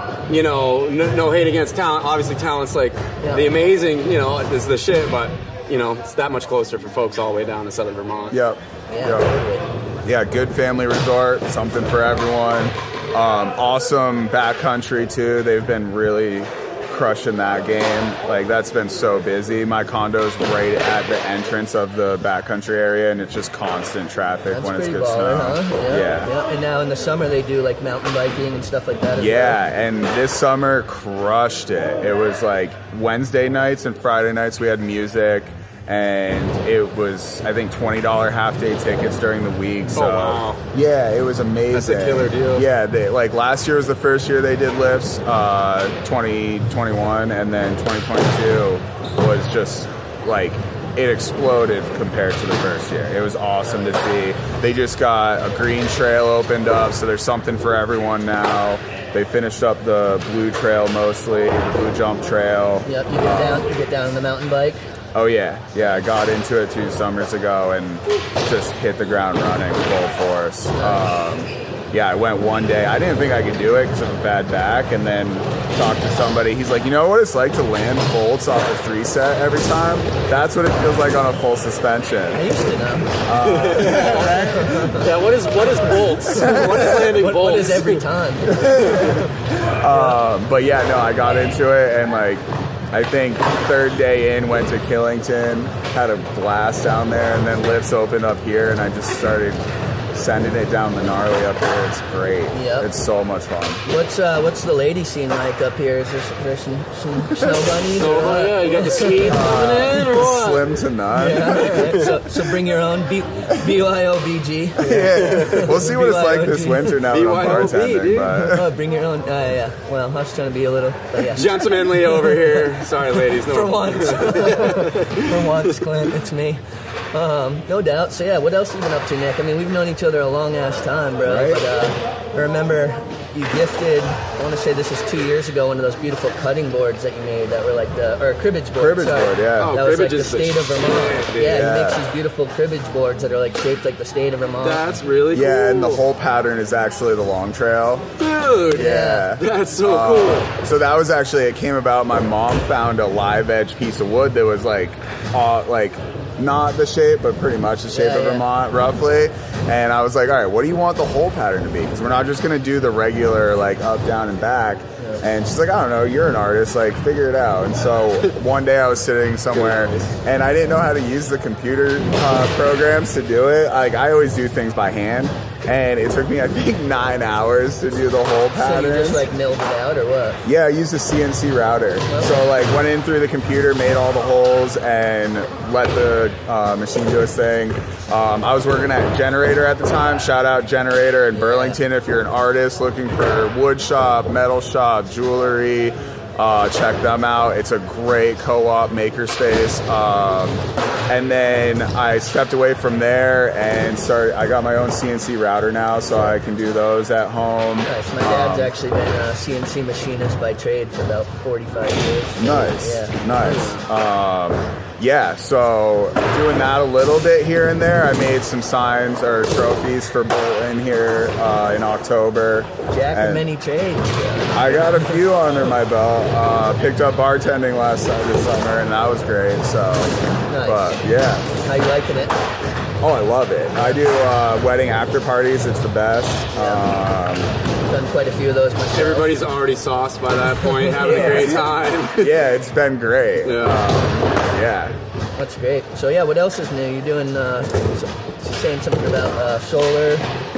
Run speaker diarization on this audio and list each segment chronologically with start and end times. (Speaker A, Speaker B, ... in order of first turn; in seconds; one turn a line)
Speaker A: 0.3-8.4
Speaker B: 8.3-9.3
Speaker C: 8.9-9.7
Speaker B: 10.0-26.3
Speaker C: 24.5-29.6
Speaker B: 29.1-63.7
Speaker A: 39.9-40.6
Speaker A: 41.7-42.6
Speaker C: 62.8-64.9
Speaker B: 65.1-82.4
Speaker C: 70.8-71.1
Speaker C: 82.3-83.1
Speaker B: 83.2-84.9
Speaker A: 83.4-88.0
Speaker C: 83.9-85.1
Speaker C: 86.3-89.1
Speaker B: 86.4-86.8
Speaker B: 88.5-103.8
Speaker A: 88.6-89.2
Speaker C: 89.9-90.2
Speaker C: 102.5-102.9
Speaker C: 103.8-109.4
Speaker A: 107.8-110.7
Speaker B: 109.2-112.0
Speaker C: 111.1-117.0
Speaker A: 111.6-112.0
Speaker B: 114.8-118.7
Speaker A: 115.2-115.7
Speaker A: 117.1-118.3
Speaker C: 118.3-121.5
Speaker A: 121.3-125.7
Speaker C: 122.1-122.6
Speaker C: 123.4-126.6
Speaker C: 127.1-144.9
Speaker B: 131.2-131.6
Speaker B: 138.8-139.8
Speaker A: 139.6-141.6
Speaker B: 141.4-142.0
Speaker A: 144.6-146.0
Speaker B: 145.3-148.1
Speaker A: 148.2-150.5
Speaker B: 148.7-179.2
Speaker C: 148.7-149.3
Speaker C: 157.9-158.4
Speaker A: 169.5-170.2
Speaker C: 178.5-180.4
Speaker B: 180.4-208.7
Speaker C: 182.1-182.4
Speaker C: 191.3-191.8
Speaker C: 207.8-213.5
Speaker B: 212.4-223.5
Speaker A: 213.4-213.7
Speaker C: 222.9-225.2
Speaker B: 224.5-231.6
Speaker C: 230.5-230.9
Speaker C: 231.6-232.4
Speaker B: 233.0-237.5
Speaker C: 236.5-236.8
Speaker C: 237.9-239.3
Speaker A: 238.9-242.3
Speaker C: 240.8-241.6
Speaker B: 241.1-241.6
Speaker B: 242.2-245.0
Speaker A: 243.4-243.8
Speaker C: 245.4-250.2